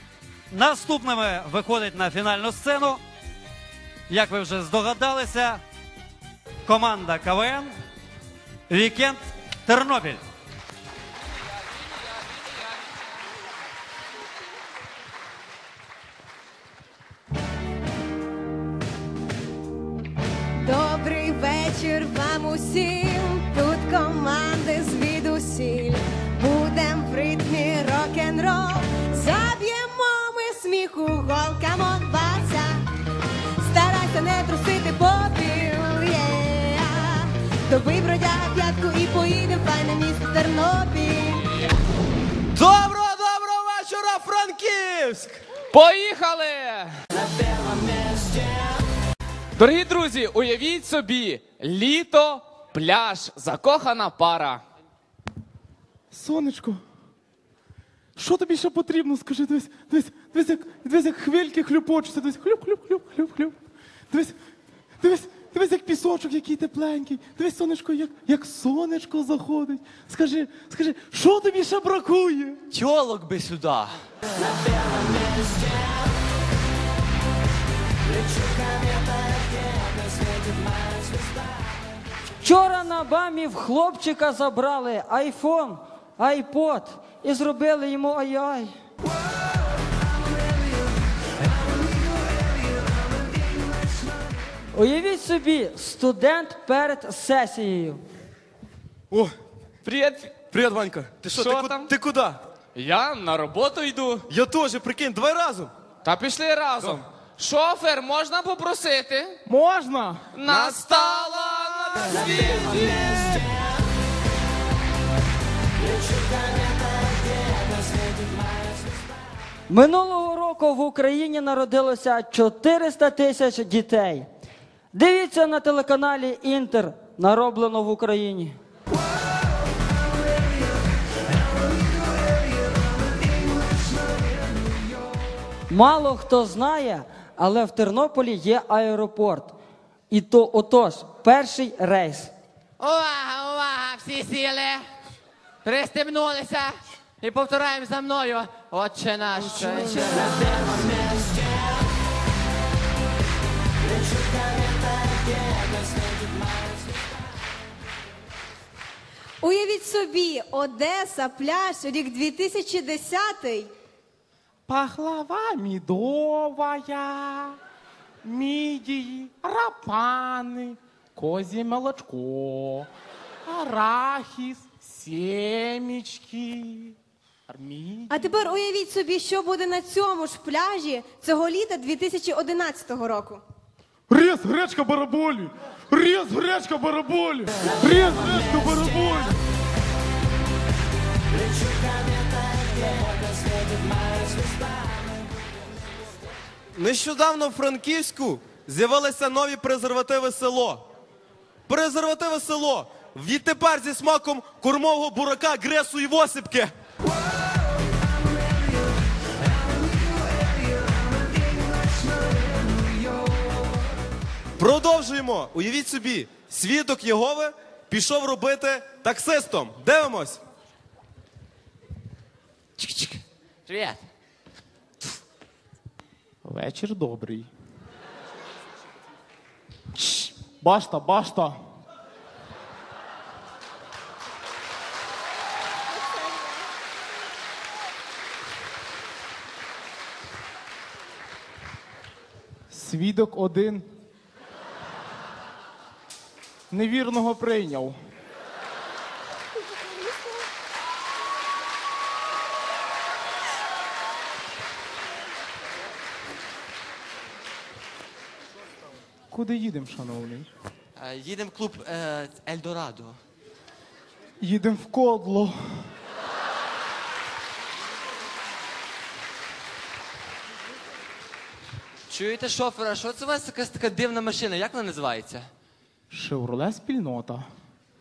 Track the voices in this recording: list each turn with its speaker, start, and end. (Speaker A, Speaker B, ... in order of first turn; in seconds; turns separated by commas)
Speaker A: 0.5-3.0, Speaker A: 4.1-5.6, Speaker A: 6.7-7.7, Speaker A: 8.7-10.2, Speaker B: 20.6-32.9, Speaker B: 33.6-41.5, Speaker C: 42.5-45.4, Speaker D: 45.7-46.9, Speaker D: 49.6-54.6, Speaker E: 56.1-56.8, Speaker E: 58.2-63.6, Speaker E: 64.1-64.4, Speaker E: 65.0-72.6, Speaker F: 72.7-74.0, Speaker G: 82.4-88.7, Speaker G: 94.7-98.0, Speaker D: 99.8-100.3, Speaker C: 100.5-102.4, Speaker D: 101.3-101.9, Speaker D: 102.8-104.3, Speaker C: 104.3-105.7, Speaker D: 106.0-109.4, Speaker E: 109.5-110.3, Speaker D: 110.3-113.3, Speaker C: 110.5-110.9, Speaker G: 119.7-124.3, Speaker G: 124.9-128.6, Speaker G: 135.7-139.6, Speaker G: 140.1-142.3, Speaker F: 142.8-144.8, Speaker F: 145.7-150.7, Speaker B: 159.4-163.7, Speaker E: 164.7-167.6, Speaker E: 168.2-172.9, Speaker E: 173.5-177.0, Speaker E: 177.5-178.2, Speaker B: 178.1-183.4, Speaker E: 184.1-189.3, Speaker C: 196.8-200.9, Speaker C: 201.7-206.7, Speaker C: 214.6-220.4, Speaker F: 222.8-224.0, Speaker E: 226.4-227.5, Speaker E: 230.0-231.6, Speaker E: 242.7-243.9, Speaker E: 246.7-248.0, Speaker E: 259.3-260.5, Speaker F: 261.0-263.2, Speaker E: 264.4-265.9, Speaker F: 272.1-275.5, Speaker E: 276.1-277.5